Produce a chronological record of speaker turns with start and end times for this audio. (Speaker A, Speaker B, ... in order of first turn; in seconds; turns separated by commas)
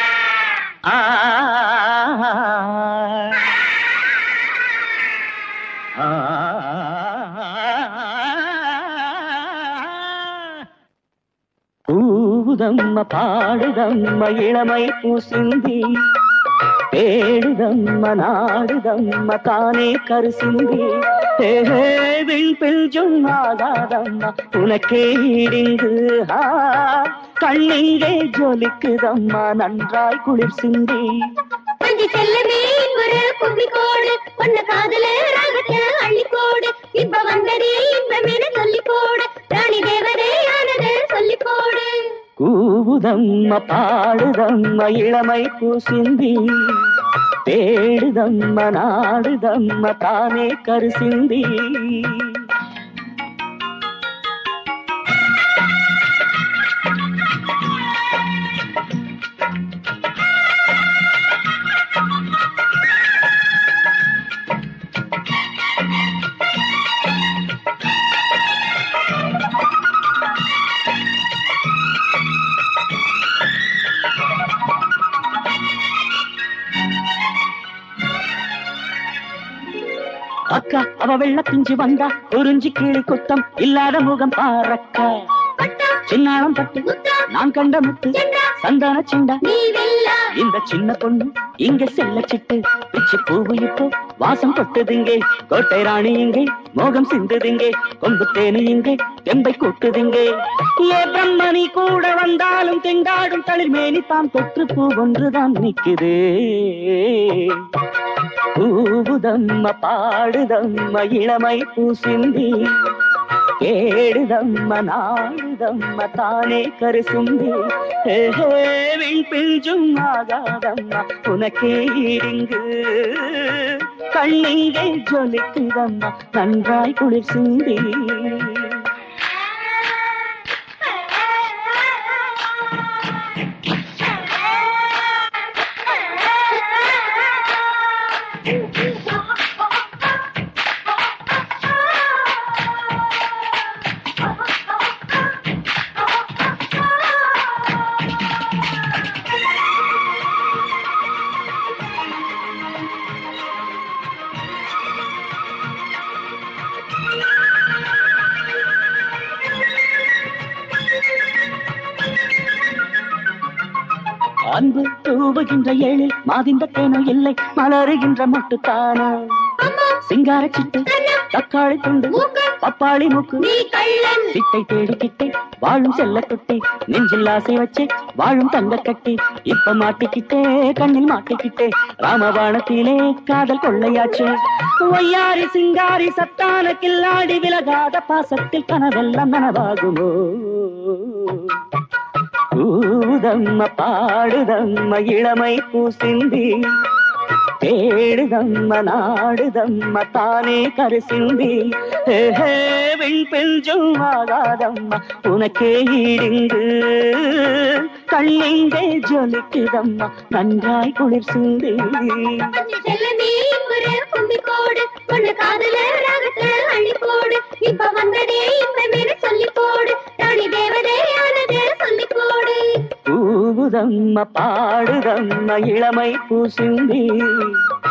Speaker A: 0.9-3.3, Speaker A: 6.0-9.9, Speaker A: 11.9-15.8, Speaker A: 16.9-31.1, Speaker B: 31.8-42.1, Speaker A: 42.4-46.9, Speaker A: 47.4-52.4, Speaker A: 80.5-85.1, Speaker B: 85.6-86.0, Speaker A: 86.0-89.4, Speaker B: 86.8-87.3, Speaker B: 88.1-88.6, Speaker B: 89.4-90.3, Speaker A: 90.3-100.3, Speaker A: 100.8-107.7, Speaker A: 108.5-112.9, Speaker A: 113.6-128.8, Speaker A: 164.5-169.1, Speaker B: 169.6-170.0, Speaker A: 170.0-173.4, Speaker B: 170.9-171.3, Speaker B: 172.1-172.6, Speaker B: 173.4-174.3, Speaker A: 174.3-191.6, Speaker A: 192.5-196.5, Speaker A: 197.6-212.5, Speaker B: 212.6-222.6, Speaker A: 223.0-227.6